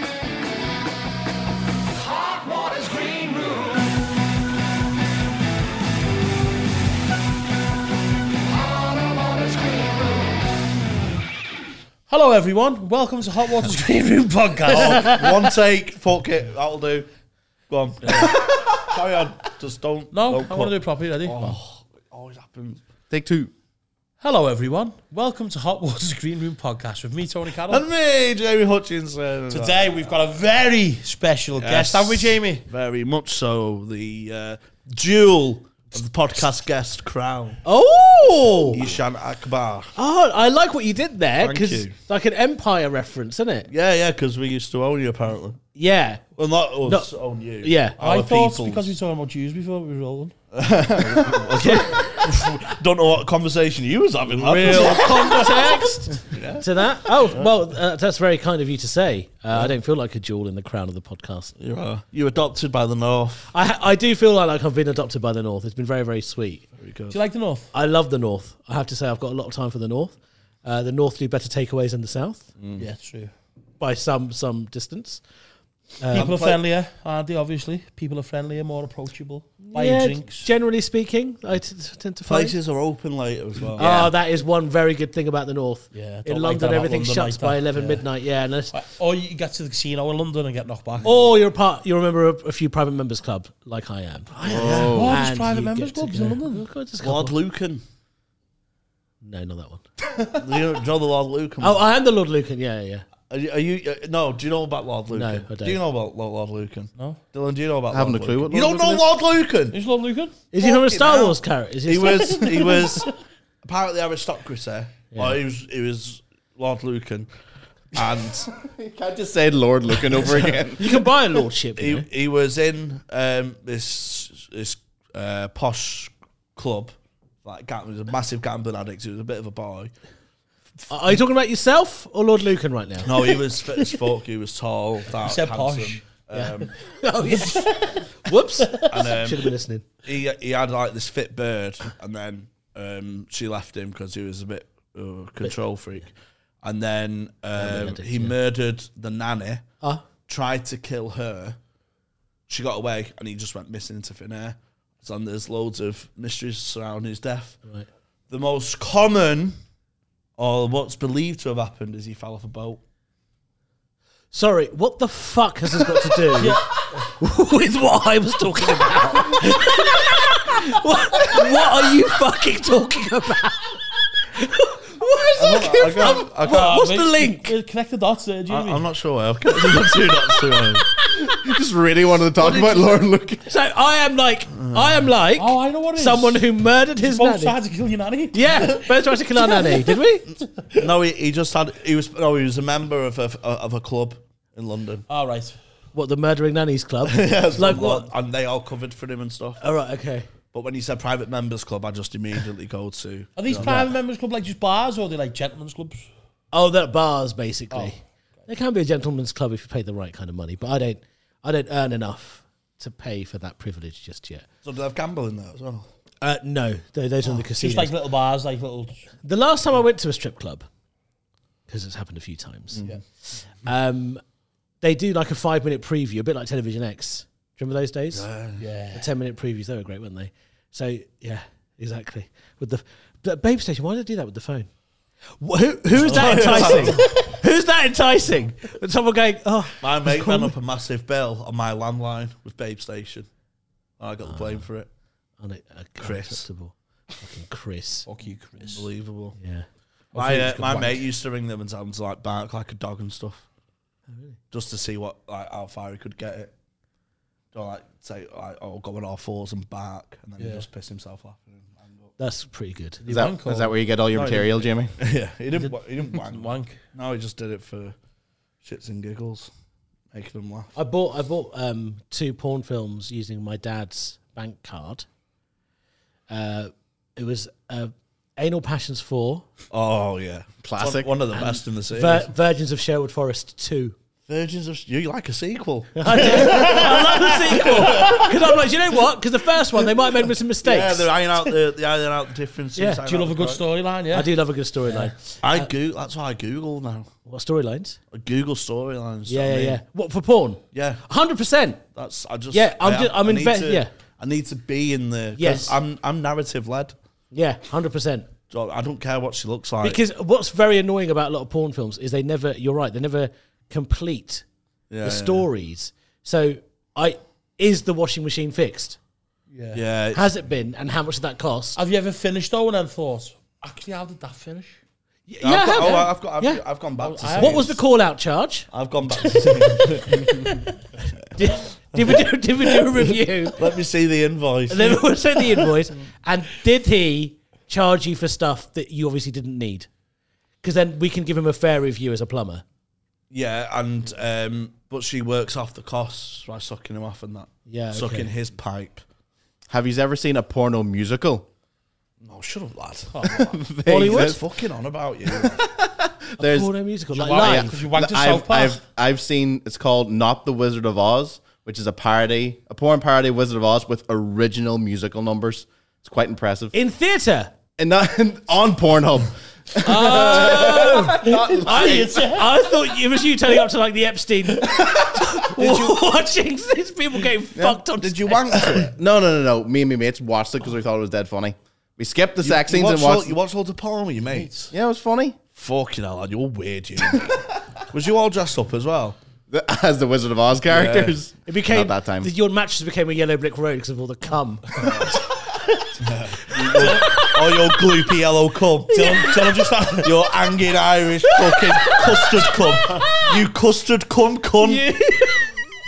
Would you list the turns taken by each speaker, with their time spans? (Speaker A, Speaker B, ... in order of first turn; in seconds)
Speaker A: 2.4-3.6, 12.1-15.3, 18.1-18.3, 20.1-21.4, 24.2-27.8, 29.5-32.6, 48.0-50.3, 54.3-55.9, 67.1-67.7, 72.8-73.3, 76.1-80.5, 83.8-84.1, 85.9-88.1, 88.7-91.1, 94.4-96.7, 109.7-110.4, 135.1-136.0, 137.3-137.8, 166.3-167.0, 176.1-178.8, 185.3-190.0, 195.1-195.6, 203.4-206.1, 207.7-207.9, 217.5-219.0, 228.6-229.1, 236.2-236.8, 248.0-248.8, 250.1-250.8, 260.4-260.6, 263.0-264.4, 265.5-266.8, 286.2-288.4, 293.0-294.3, 319.5-319.8, 321.7-324.8, 327.0-327.8, 357.1-358.8, 369.8-372.6, 398.9-400.1
Speaker B: 14.7-17.1, 17.7-22.8, 27.7-30.1, 31.6-37.6, 38.7-39.9, 41.4-41.9, 43.7-45.6, 46.4-48.9, 50.5-55.4, 56.1-57.5, 61.6-63.5, 66.8-67.2, 72.6-72.8, 76.1-76.6, 82.2-83.9, 97.0-97.8, 100.3-101.8, 103.3-109.8, 110.6-113.1, 113.6-117.3, 117.9-118.5, 120.1-120.9, 121.8-129.9, 133.0-137.6, 138.8-149.6, 150.3-151.6, 152.5-157.6, 158.3-159.6, 160.4-162.8, 175.4-176.8, 178.5-180.9, 184.6-185.1, 190.3-195.1, 197.0-199.6, 200.5-203.9, 214.6-215.9, 222.7-223.0, 228.1-228.6, 235.9-237.1, 239.8-243.3, 244.0-244.9, 246.0-246.5, 248.7-249.4, 250.1-253.4, 254.5-256.5, 257.5-262.1, 264.1-267.9, 268.6-269.5, 270.1-270.7, 279.7-282.3, 284.3-288.3, 290.6-293.6, 295.4-297.1, 298.1-299.8, 300.7-301.0, 301.9-306.9, 308.5-310.0, 314.9-315.5, 319.7-320.3, 325.4-327.8, 328.7-332.2, 333.4-335.7, 343.3-349.0, 352.2-355.6, 375.6-376.0, 377.9-378.9, 382.4-384.7, 385.5-389.2, 390.6-391.2, 394.8-395.1, 396.0-399.2, 400.0-404.9
Speaker C: 23.1-23.5, 94.4-95.2, 107.9-109.1, 118.5-121.0, 181.2-183.5, 263.1-264.9, 280.6-281.1, 349.7-351.5, 353.2-354.4, 355.3-366.7, 367.8-372.2, 377.5-377.8, 378.7-383.4, 384.7-385.4, 389.5-392.3
Speaker D: 37.6-39.0, 40.0-43.7, 45.8-46.2, 46.8-48.0, 51.5-52.3, 54.5-61.5, 63.5-66.7, 67.7-72.5, 73.8-75.2, 76.0-76.3, 79.6-82.6, 83.8-88.7, 91.0-97.4, 99.2-99.8, 101.6-103.1, 105.1-105.8, 110.5-113.0, 115.1-115.4, 120.8-122.1, 130.9-133.4, 136.3-139.8, 147.6-148.3, 164.3-177.5, 179.8-180.1, 180.8-181.5, 183.4-187.5, 188.3-190.3, 195.9-198.1, 199.6-200.3, 203.5-203.9, 206.5-214.4, 216.2-217.9, 219.2-220.7, 221.7-222.8, 223.6-224.2, 224.8-228.3, 228.9-234.7, 235.4-240.5, 244.2-244.6, 245.4-248.1, 249.4-249.7, 250.3-250.9, 254.1-254.4, 262.2-263.0, 270.7-275.1, 276.3-279.5, 281.4-283.9, 286.0-291.2, 292.8-293.0, 294.1-295.7, 297.2-298.0, 299.3-301.8, 302.5-303.9, 305.4-305.8, 307.3-308.3, 309.8-314.4, 315.0-319.0, 320.1-321.8, 325.3-326.6, 327.4-328.7, 329.2-329.5, 331.3-333.7, 334.7-339.9, 340.6-342.6, 347.7-348.3, 353.9-354.4, 356.4-357.8, 366.7-367.5, 369.8-378.9, 391.5-397.9, 398.9-399.7, 401.5-403.4, 404.6-405.6